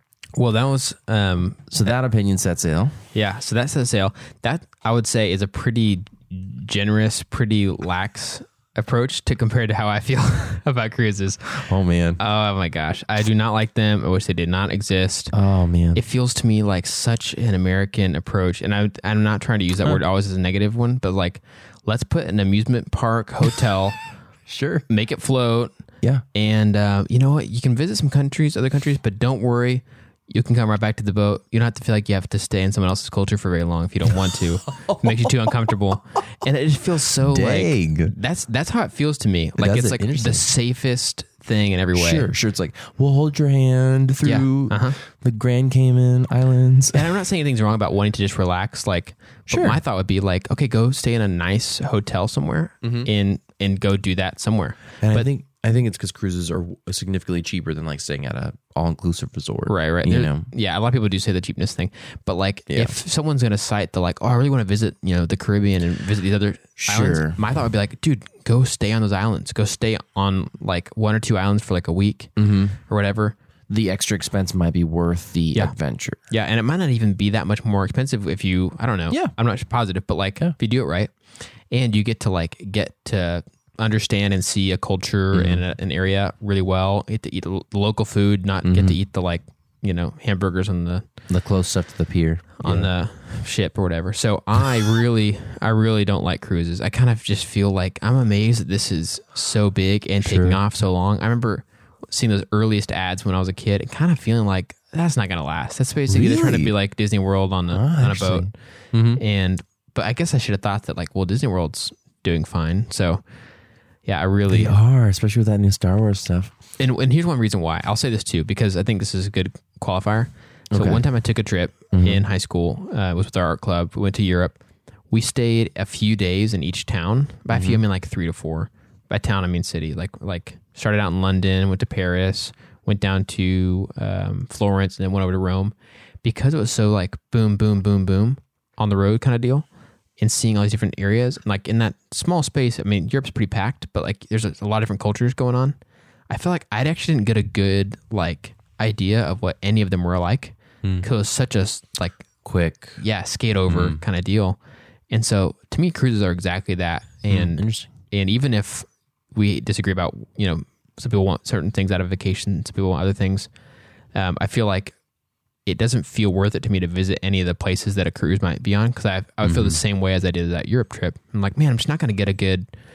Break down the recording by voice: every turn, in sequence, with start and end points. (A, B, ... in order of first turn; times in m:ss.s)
0:00.4-0:01.7 A
0:01.7-0:03.0 B
0:03.1-0:15.3 A
0:11.6-0:12.2 B
0:15.3-0:16.0 B
0:15.9-0:24.0 A
0:24.5-0:24.8 B
0:24.9-0:25.8 A
0:26.3-0:42.3 A
0:34.7-0:35.8 B
0:37.2-0:38.2 B
0:39.6-0:40.5 B
0:41.9-0:47.1 B
0:44.2-0:45.0 A
0:46.9-0:55.3 A
0:49.5-0:49.8 B
0:52.8-0:53.1 B
0:55.0-1:00.5 B
0:59.7-1:12.3 A
1:02.7-1:03.0 B
1:06.8-1:07.4 B
1:12.4-1:12.8 B
1:12.8-1:13.4 A
1:13.7-1:16.2 B
1:16.3-1:21.1 A
1:21.7-1:31.0 A
1:25.3-1:25.6 B
1:28.6-1:29.0 B
1:31.3-1:32.9 B
1:32.6-1:48.6 A
1:40.2-1:40.6 B
1:46.1-1:46.7 B
1:47.7-1:49.2 B
1:49.1-1:53.2 A
1:54.0-1:54.8 A
1:54.5-1:56.5 B
1:56.8-2:04.6 A
2:00.7-2:01.0 B
2:01.9-2:02.2 B
2:05.1-2:19.7 A
2:07.5-2:07.8 B
2:20.2-2:25.8 A
2:26.3-2:32.3 A
2:30.8-2:31.1 B
2:32.4-2:33.0 B
2:33.0-2:34.6 A
2:33.7-2:34.0 B
2:35.1-2:43.5 A
2:37.3-2:37.9 B
2:44.1-2:45.0 A
2:45.7-2:52.7 A
2:49.4-2:49.8 B